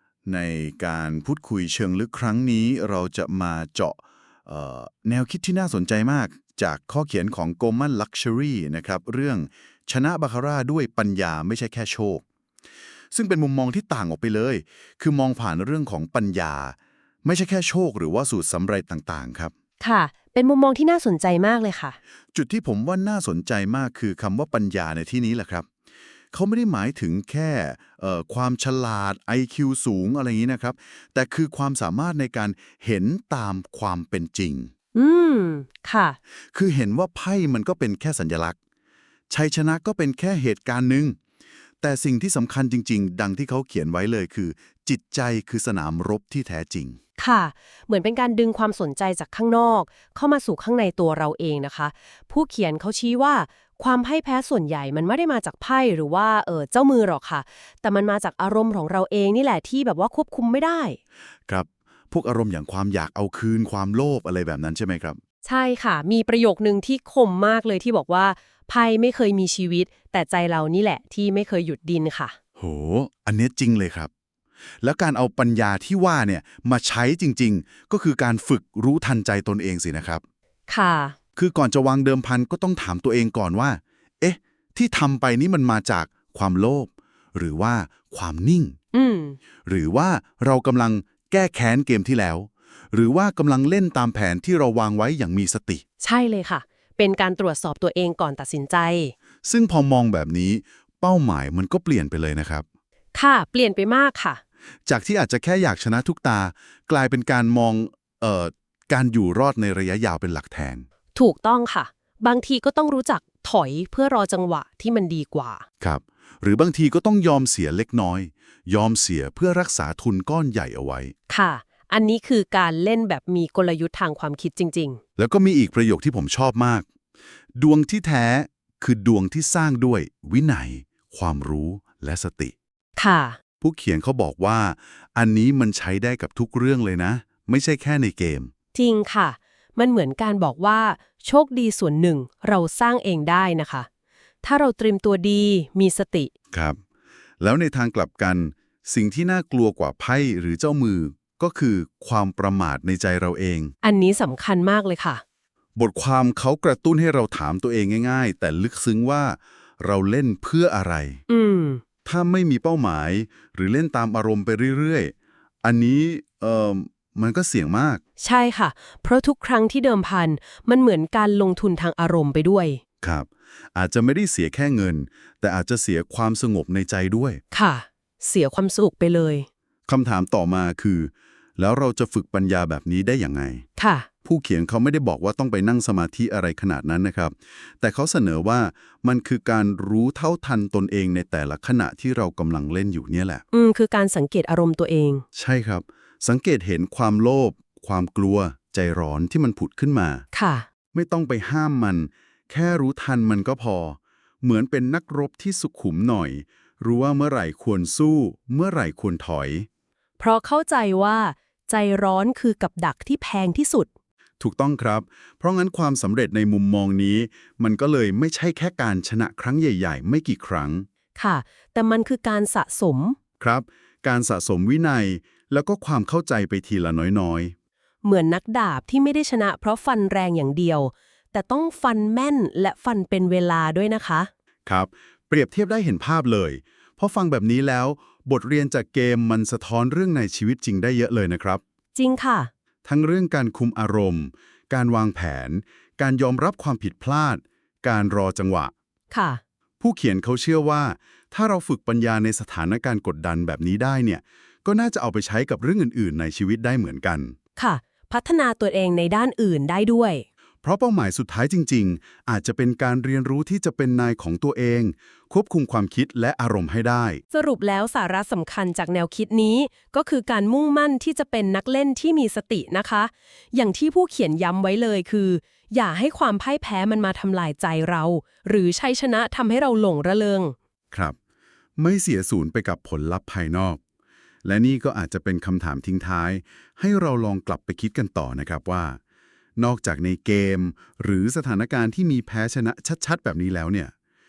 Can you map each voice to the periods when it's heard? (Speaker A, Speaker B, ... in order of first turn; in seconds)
Speaker A: 0.2-12.2, 13.1-19.5, 22.3-25.7, 26.3-34.7, 36.5-38.5, 39.3-41.2, 41.8-47.0, 61.5-65.2, 72.6-74.1, 74.8-80.2, 81.3-88.8, 89.7-95.8, 99.4-102.6, 104.9-110.8, 115.8-121.1, 125.2-126.8, 127.5-132.5, 133.6-138.5, 146.5-146.8, 147.4-153.7, 155.8-161.2, 162.0-168.0, 173.0-177.4, 179.9-183.6, 184.2-193.4, 195.3-200.2, 200.9-209.7, 214.4-220.9, 223.4-227.5, 234.7-241.6, 242.8-248.7, 249.8-257.4, 260.6-267.2, 281.8-283.8, 284.4-289.0, 289.6-293.9
Speaker B: 19.8-22.0, 34.9-36.2, 47.2-61.0, 65.4-72.3, 80.7-81.2, 88.9-89.4, 96.0-99.1, 103.1-104.4, 111.1-115.6, 121.3-125.0, 133.0-133.4, 138.7-143.9, 144.4-146.3, 153.8-155.2, 161.3-161.8, 168.2-172.8, 177.5-179.5, 183.8-184.1, 193.5-195.2, 200.3-200.7, 210.2-213.9, 221.2-223.2, 228.0-234.3, 241.9-242.5, 249.1-249.4, 257.6-260.2, 267.3-280.5